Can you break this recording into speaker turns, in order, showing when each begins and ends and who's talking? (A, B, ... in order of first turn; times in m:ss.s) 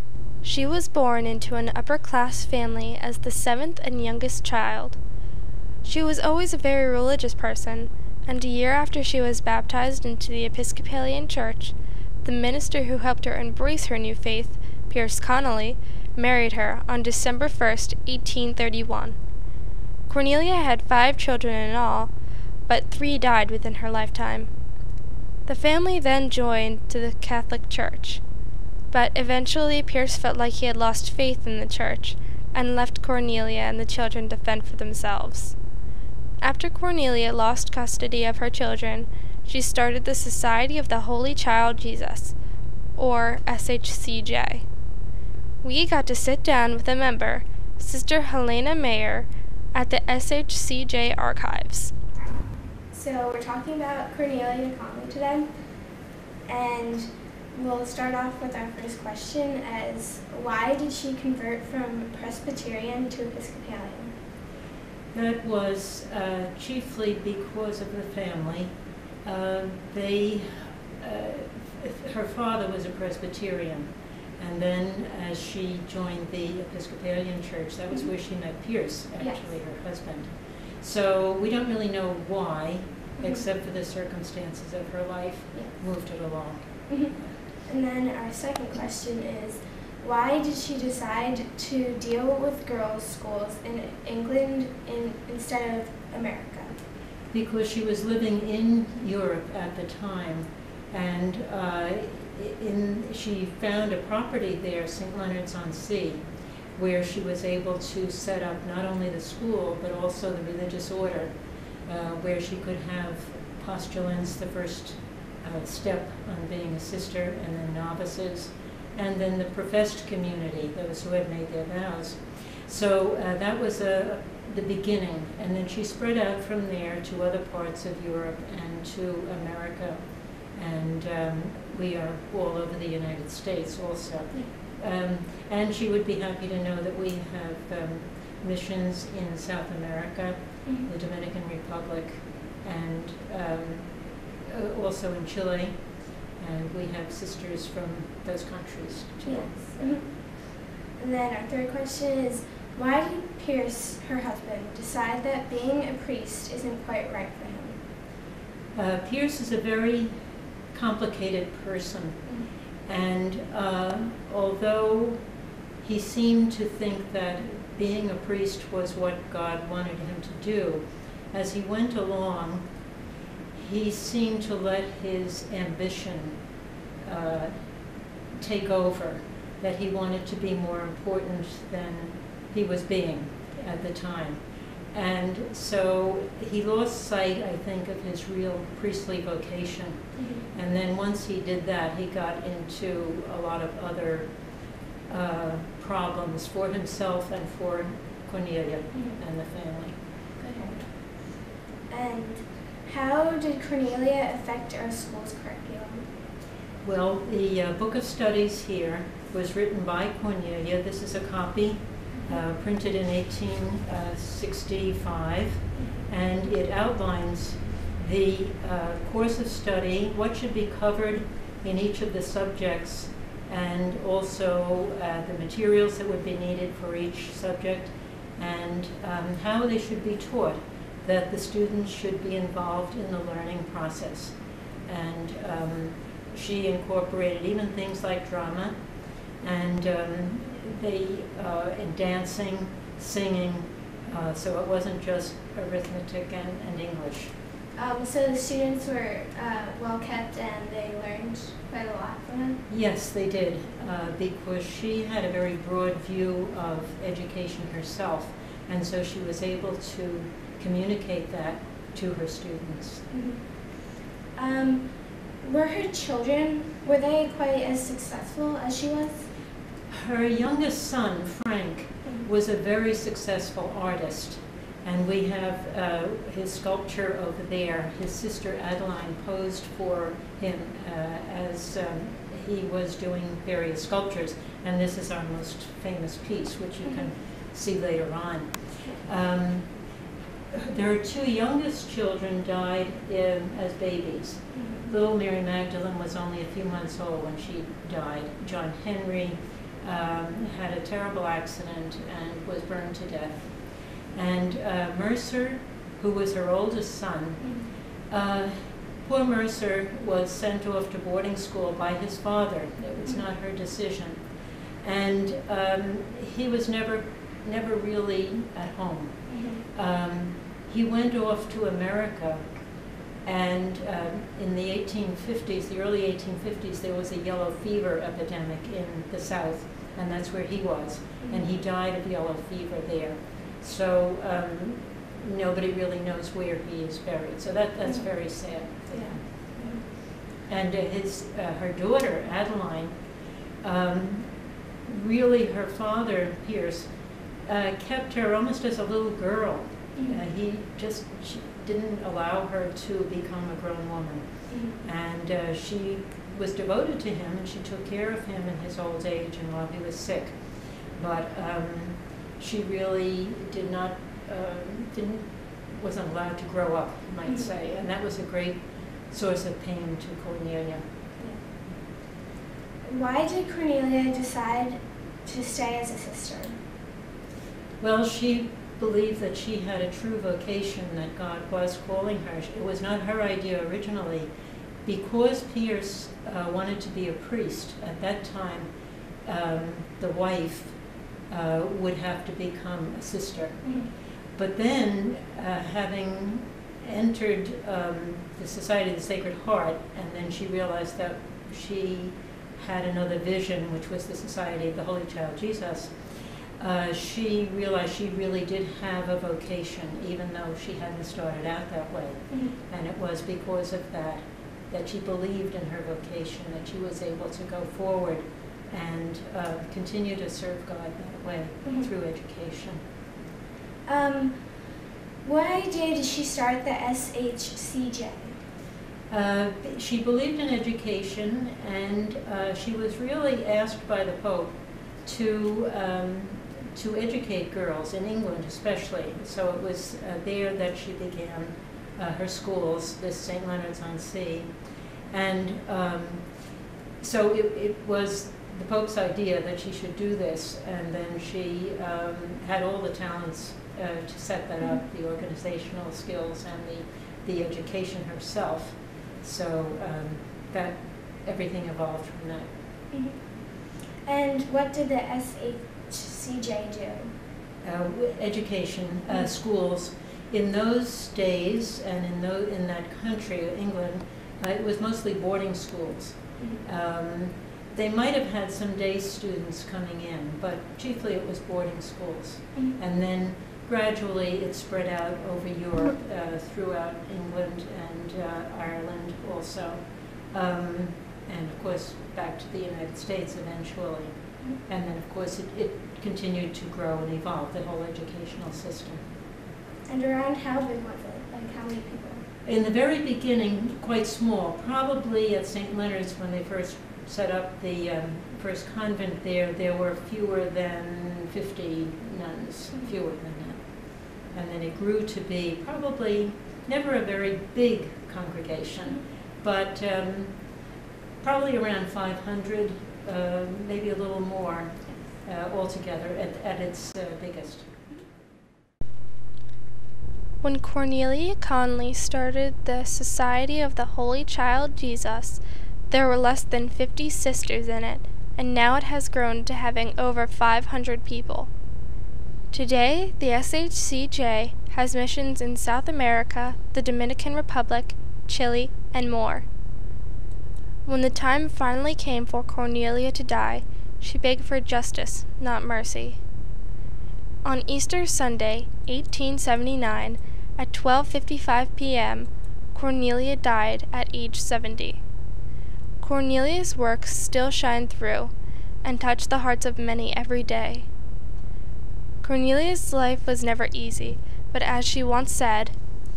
0:00.4-0:05.0 A
0:05.8-0:19.2 A
0:20.1-0:22.1 A
0:22.7-0:24.5 A
0:25.4-0:28.2 A
0:28.9-0:35.5 A
0:36.4-0:42.3 A
0:43.0-0:44.6 A
0:45.6-0:51.9 A
0:52.9-0:55.5 B
0:56.4-1:04.1 B
1:05.1-1:08.7 C
1:09.2-1:27.4 C
1:23.2-1:23.4 B
1:26.9-1:36.7 B
1:37.3-1:46.2 C
1:46.8-1:51.3 C
1:51.8-2:23.9 C
2:24.4-2:25.7 C
2:26.4-2:29.9 C
2:29.2-2:37.8 B
2:38.7-2:40.1 C
2:40.7-2:45.2 C
2:45.8-2:52.6 C
2:53.5-2:56.4 C
2:57.0-2:57.5 C
2:58.4-3:04.4 C
3:04.9-3:14.4 C
3:10.2-3:10.4 B
3:15.1-3:19.9 C
3:18.9-3:19.2 B
3:20.4-3:21.0 B
3:21.9-3:26.1 B
3:26.8-3:54.3 C
3:54.9-3:58.7 C
3:59.4-4:07.3 C
4:07.7-4:12.6 B
4:12.7-4:23.0 C
4:23.1-4:23.6 B
4:24.3-4:29.3 B
4:29.9-4:49.7 C
4:50.5-5:03.5 C
4:54.5-4:54.8 B
5:04.1-5:14.2 C
5:14.8-5:22.4 C
5:19.3-5:19.6 B
5:23.2-5:39.2 C
5:31.2-5:31.5 B
5:37.8-5:39.8 B
5:40.5-5:43.0 C
5:43.6-5:44.3 C
5:44.8-5:46.9 C
5:47.4-6:10.8 C
5:50.0-5:50.2 B
5:54.5-5:54.8 B
6:07.2-6:07.5 B
6:12.8-6:16.5 B
6:17.8-6:24.3 C
6:24.8-6:28.7 C
6:29.2-6:30.7 C
6:31.3-6:33.6 C
6:33.6-6:33.9 B
6:34.4-6:46.0 C
6:46.6-7:02.8 C
6:52.3-6:52.5 B
7:03.8-7:04.4 B
7:05.2-7:08.4 B
7:09.1-7:24.5 C
7:25.1-7:26.3 C
7:27.0-7:42.5 C
7:42.9-7:43.2 B
7:44.0-7:47.1 B
7:47.6-8:19.0 C
7:56.4-7:56.6 B
8:19.9-8:22.2 B
8:22.4-8:33.6 C
8:34.3-8:40.4 C
8:41.2-8:47.7 C
8:50.4-9:01.5 A
9:02.5-9:09.4 A
9:10.8-9:16.2 A
9:17.4-9:25.0 A
9:26.0-9:28.3 A
9:28.8-9:30.8 A
9:32.2-9:35.7 A